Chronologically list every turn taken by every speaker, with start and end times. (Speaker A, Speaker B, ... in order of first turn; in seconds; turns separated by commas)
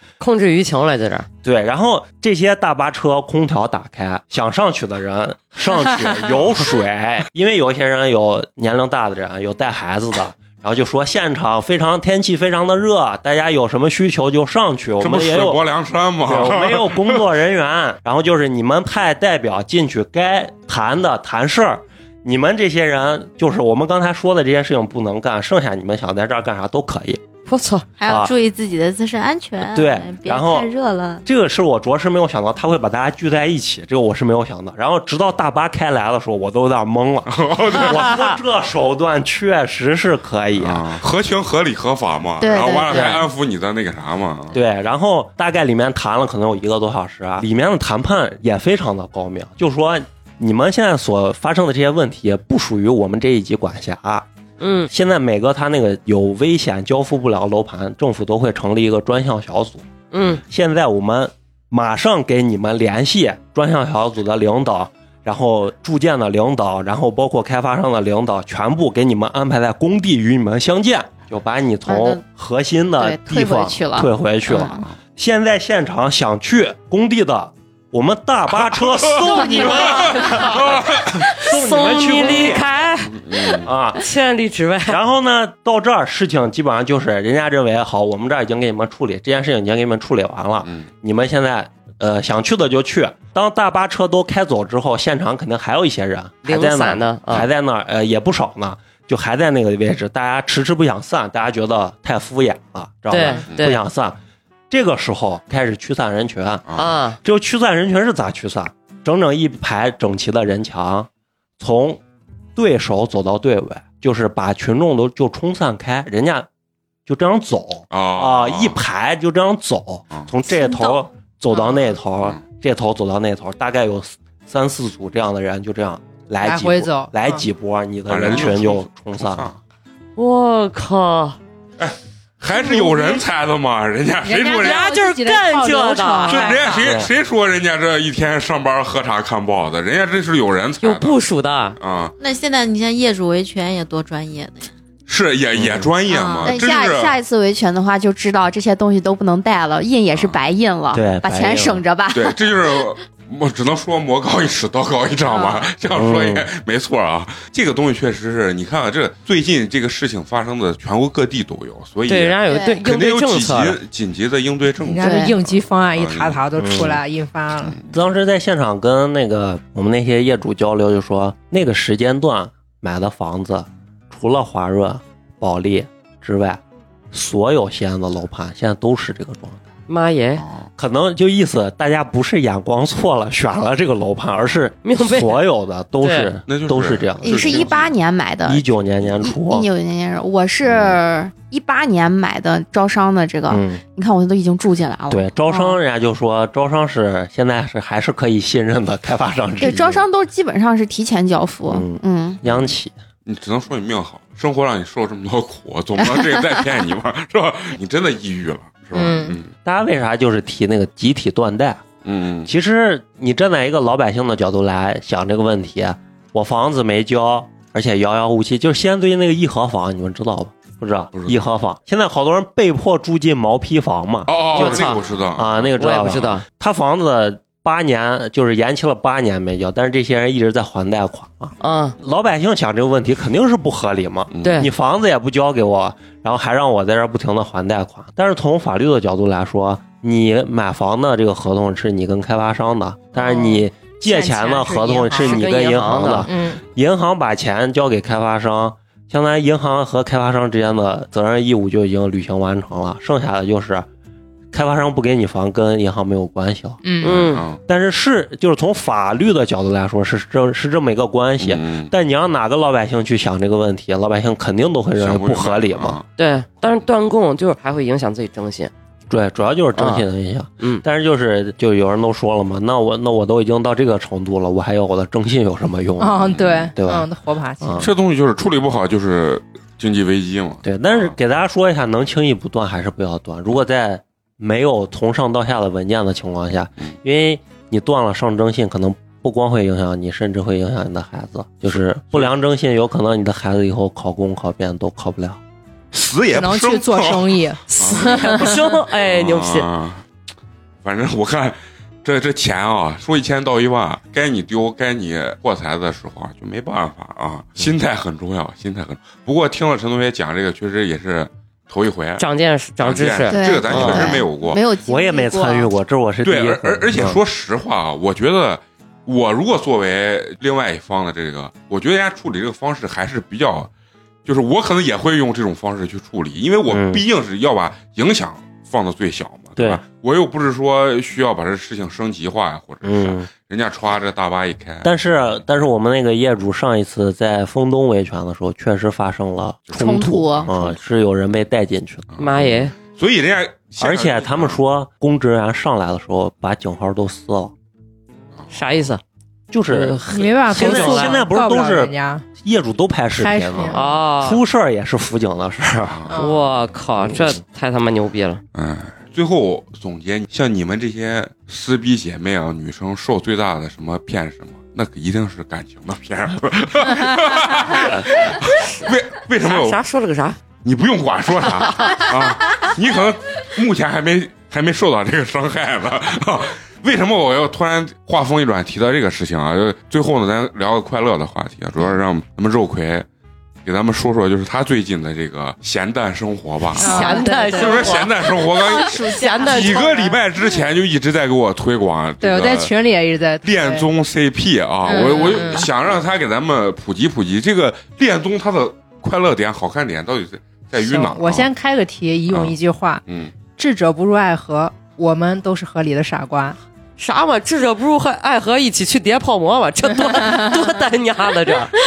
Speaker A: 0.2-1.3, Speaker B: 1.4-15.6, Speaker C: 15.0-17.2, Speaker B: 16.2-27.2, Speaker A: 27.5-27.9, Speaker D: 28.0-31.2, Speaker B: 28.1-28.3, Speaker B: 29.7-30.7, Speaker B: 31.2-41.0, Speaker C: 37.3-38.1, Speaker C: 40.6-44.6, Speaker E: 42.4-43.2, Speaker B: 44.5-54.2, Speaker A: 54.6-54.9, Speaker B: 54.9-82.7, Speaker A: 60.1-60.4, Speaker E: 71.9-72.2, Speaker E: 73.0-74.8, Speaker C: 79.0-81.2, Speaker A: 79.5-80.7, Speaker E: 79.5-79.9, Speaker A: 81.2-85.0, Speaker C: 83.2-83.7, Speaker B: 83.5-84.0, Speaker B: 84.9-104.2, Speaker A: 96.5-97.5, Speaker A: 103.1-103.8, Speaker B: 104.7-106.7, Speaker A: 106.8-107.2, Speaker B: 107.2-111.1, Speaker B: 111.6-112.0, Speaker B: 112.6-116.5, Speaker B: 117.1-129.6, Speaker C: 117.9-118.8, Speaker F: 126.4-127.5, Speaker C: 128.1-129.5, Speaker A: 130.2-131.4, Speaker C: 131.8-134.9, Speaker F: 132.5-133.2, Speaker F: 134.2-136.8, Speaker A: 134.6-136.7, Speaker C: 136.3-141.2, Speaker B: 136.8-137.1, Speaker A: 140.8-141.8, Speaker C: 141.8-142.1, Speaker D: 142.2-144.7, Speaker C: 145.1-147.2, Speaker B: 145.6-145.9, Speaker D: 146.1-146.6, Speaker E: 146.4-152.4, Speaker C: 150.1-150.4, Speaker B: 150.9-151.8, Speaker C: 152.1-167.0, Speaker E: 155.3-155.6, Speaker B: 155.9-156.5, Speaker A: 162.1-163.8, Speaker E: 162.5-162.8, Speaker F: 164.8-167.8, Speaker E: 165.0-165.3, Speaker B: 166.6-167.0, Speaker B: 167.9-176.6, Speaker B: 177.1-179.6, Speaker A: 179.9-180.4, Speaker C: 180.4-180.7, Speaker B: 180.8-187.7, Speaker A: 184.8-185.4, Speaker A: 186.0-186.3, Speaker C: 186.5-187.9, Speaker E: 187.2-195.8, Speaker B: 188.4-189.7, Speaker B: 190.7-191.0, Speaker B: 193.5-193.8, Speaker B: 195.1-200.1, Speaker E: 199.6-202.4, Speaker B: 201.7-202.9, Speaker C: 202.4-209.5, Speaker F: 208.9-209.4, Speaker B: 209.6-211.8, Speaker C: 212.0-212.5, Speaker B: 212.5-253.9, Speaker C: 221.1-221.4, Speaker C: 224.3-225.7, Speaker A: 224.5-225.0, Speaker A: 225.8-226.4, Speaker A: 231.6-232.0, Speaker C: 234.3-234.6, Speaker A: 234.4-234.7, Speaker A: 243.3-243.6, Speaker F: 244.0-245.5, Speaker A: 245.2-246.3, Speaker F: 246.3-246.6, Speaker B: 254.5-266.0, Speaker F: 256.8-257.1, Speaker A: 257.0-257.4, Speaker C: 257.0-257.6, Speaker C: 261.4-261.9, Speaker C: 265.0-266.0, Speaker A: 266.2-268.7, Speaker B: 269.1-277.1, Speaker A: 269.8-270.1, Speaker A: 270.6-270.8, Speaker F: 276.0-277.9, Speaker B: 277.6-277.9, Speaker C: 277.8-281.1, Speaker B: 280.6-295.4, Speaker C: 295.9-300.1, Speaker F: 296.3-298.7, Speaker A: 297.7-299.7, Speaker C: 300.8-312.2, Speaker A: 312.2-314.1, Speaker C: 312.8-314.6, Speaker E: 313.3-315.7, Speaker B: 313.8-314.1, Speaker B: 314.9-317.2, Speaker C: 316.2-323.7, Speaker C: 324.2-334.9, Speaker B: 326.7-327.0, Speaker B: 329.6-329.8, Speaker B: 332.8-333.3, Speaker B: 334.8-342.1, Speaker C: 339.7-340.5, Speaker E: 339.7-340.5, Speaker C: 342.1-344.6, Speaker A: 342.2-342.7, Speaker B: 343.8-347.5, Speaker A: 348.5-349.0, Speaker B: 349.5-356.1, Speaker A: 349.7-351.2, Speaker F: 350.1-352.3, Speaker F: 353.2-353.8, Speaker A: 353.7-354.4, Speaker F: 356.1-356.4, Speaker A: 356.2-358.4, Speaker C: 358.5-369.8, Speaker A: 369.4-370.4, Speaker C: 370.6-383.1, Speaker C: 383.6-392.7, Speaker F: 386.8-387.9, Speaker A: 386.8-388.1, Speaker E: 386.9-390.1, Speaker A: 388.9-389.9, Speaker F: 392.2-393.9, Speaker C: 393.4-401.5, Speaker F: 394.9-395.7, Speaker F: 400.8-403.0, Speaker C: 402.3-402.6, Speaker C: 403.1-403.3, Speaker F: 403.6-406.6, Speaker A: 407.0-411.7